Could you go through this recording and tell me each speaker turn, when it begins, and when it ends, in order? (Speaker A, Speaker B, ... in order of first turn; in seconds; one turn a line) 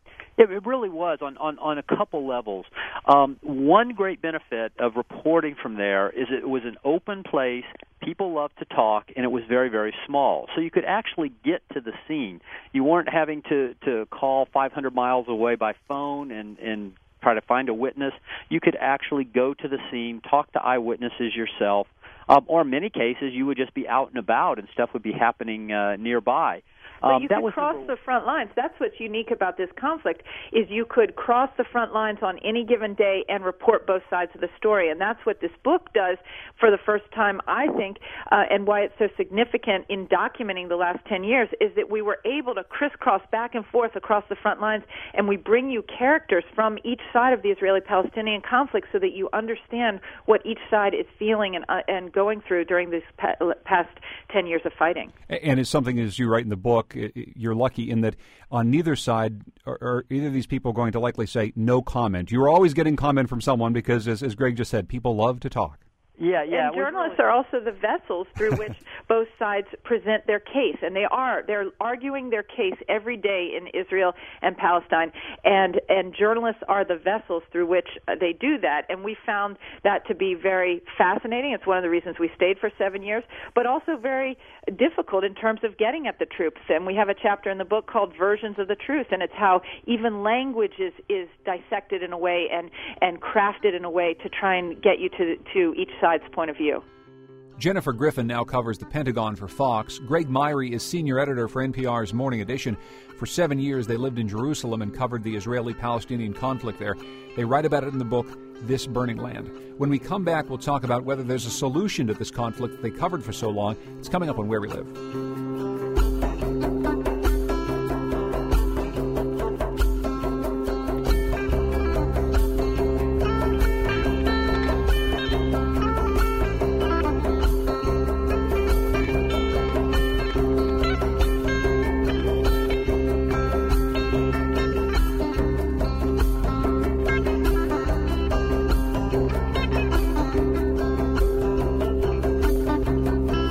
Speaker A: 0.4-27.9
Speaker B: 27.1-55.1
Speaker C: 55.3-65.8
Speaker A: 66.2-67.2
Speaker B: 66.5-96.8
Speaker C: 97.6-114.9